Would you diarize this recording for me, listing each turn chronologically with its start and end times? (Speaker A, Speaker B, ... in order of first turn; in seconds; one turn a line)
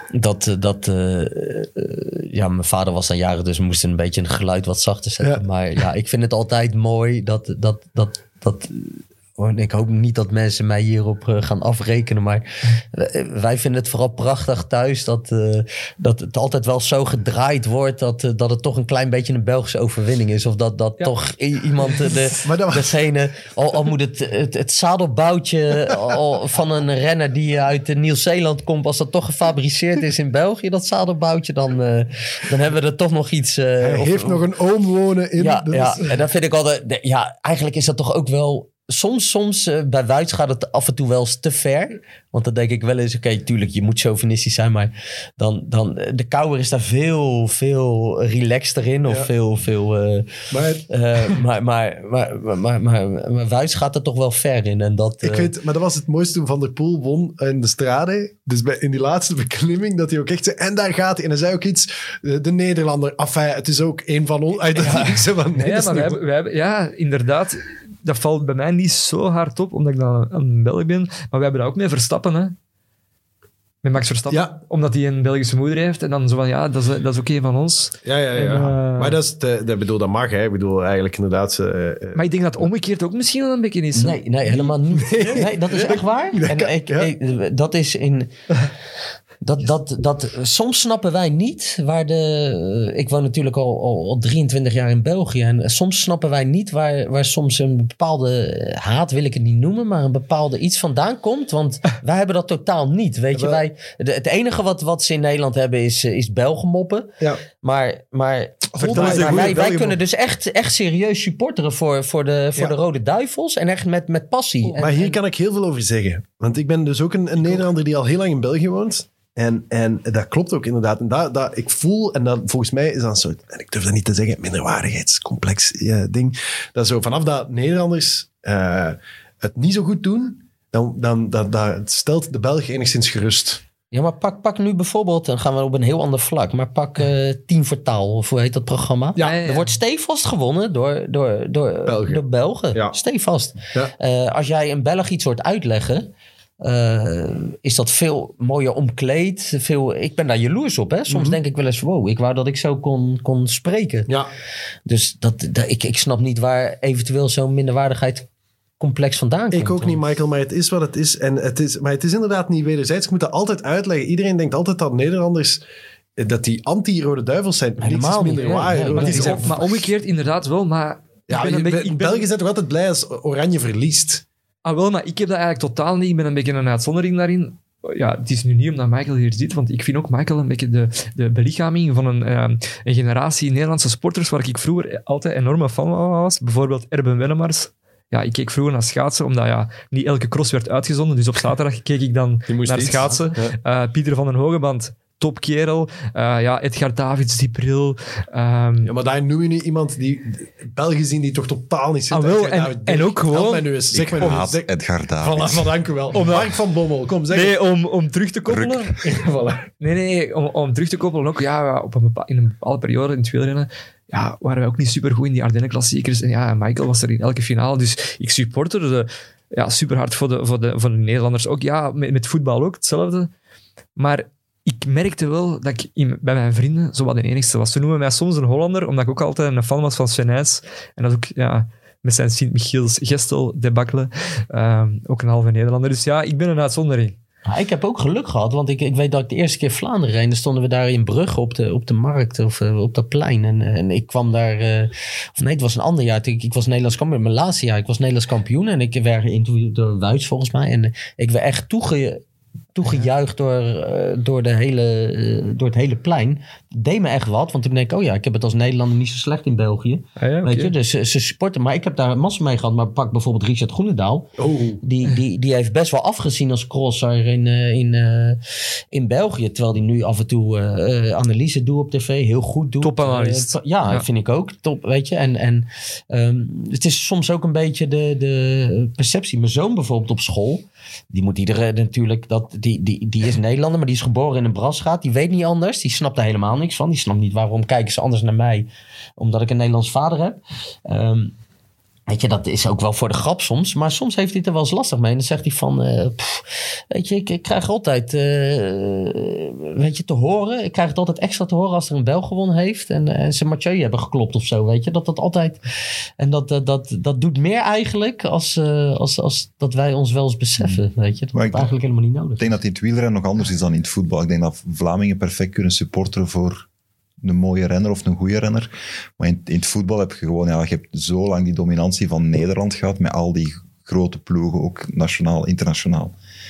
Speaker A: 0.1-34.4
Speaker B: 22.4-23.0
Speaker B: 33.8-36.1
Speaker A: 35.4-55.5
Speaker B: 50.5-51.3
Speaker B: 55.2-66.2
Speaker C: 64.8-72.5
Speaker C: 73.8-79.2
Speaker B: 74.3-74.6
Speaker B: 78.0-82.2
Speaker C: 82.1-84.2
Speaker A: 83.9-88.3
Speaker B: 84.5-87.1
Speaker A: 89.4-115.2
Speaker B: 103.3-103.6
Speaker B: 108.7-109.8
Speaker C: 108.9-110.0
Speaker B: 114.7-133.6
Speaker A: 133.9-146.1
Speaker B: 139.1-139.4
Speaker C: 139.2-139.7
Speaker B: 141.8-143.0
Speaker A: 146.6-154.1
Speaker B: 151.1-151.4
Speaker A: 154.8-158.3
Speaker A: 158.8-160.0
Speaker B: 159.5-165.6
Speaker B: 166.2-169.8
Speaker A: 167.8-169.5
Speaker C: 168.3-172.3
Speaker B: 171.3-174.2
Speaker C: 174.6-198.9
Speaker B: 192.5-193.5
Speaker B: 198.8-204.7
Speaker C: 202.1-204.4
Speaker D: 203.9-205.7
Speaker B: 205.2-207.5
Speaker C: 206.1-206.5
Speaker C: 207.3-209.0
Speaker D: 208.4-208.9
Speaker B: 209.0-209.7
Speaker C: 209.8-223.3
Speaker C: 223.9-237.2
Speaker A: 237.4-252.2
Speaker A: 252.7-264.3
Speaker C: 260.2-260.7
Speaker B: 264.4-264.8
Speaker A: 264.8-268.4
Speaker A: 268.9-291.3
Speaker C: 272.8-274.0
Speaker A: 292.1-305.6
Speaker A: 306.2-312.6
Speaker D: 311.3-311.7
Speaker D: 312.4-316.6
Speaker D: 317.2-326.1